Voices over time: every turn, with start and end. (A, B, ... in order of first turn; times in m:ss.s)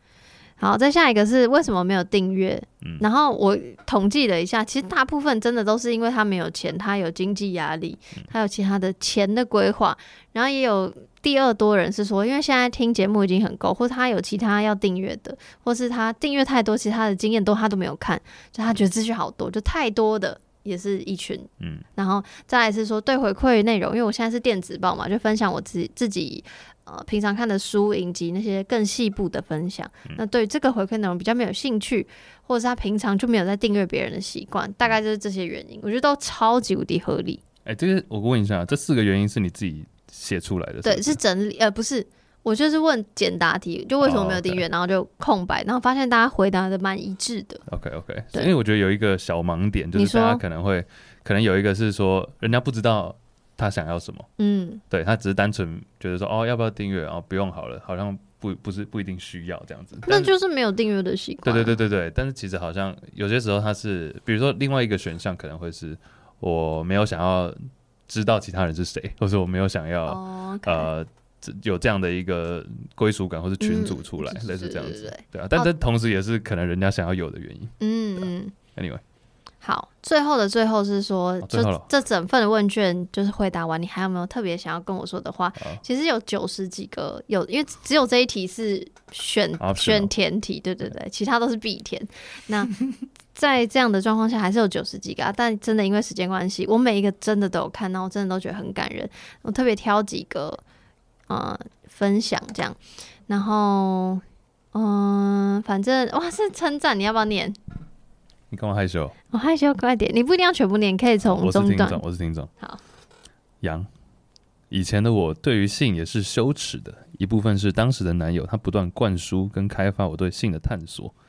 0:00.6-0:37.4 A
0:21.6-0:21.8 B
0:37.6-0:41.2 B
0:40.8-0:47.6 A
0:44.0-0:44.6 B
0:47.7-0:54.3 B
0:49.9-0:50.4 A
0:54.4-0:54.8 A
0:54.9-1:00.3 B
1:00.0-1:01.8 A
1:01.4-1:07.6 B
1:08.1-1:19.0 B
1:10.1-1:10.9 A
1:13.6-1:15.7 A
1:17.8-1:18.5 A
1:19.6-1:32.8 A
1:21.4-1:21.8 B
1:29.6-1:30.1 B
1:33.3-1:40.6 A
1:41.3-1:44.2 A
1:44.7-1:47.6 A
1:48.5-1:49.1 B
1:49.3-1:52.0 A
1:51.2-1:52.5 B
1:53.6-1:53.9 B
1:54.7-2:01.1 B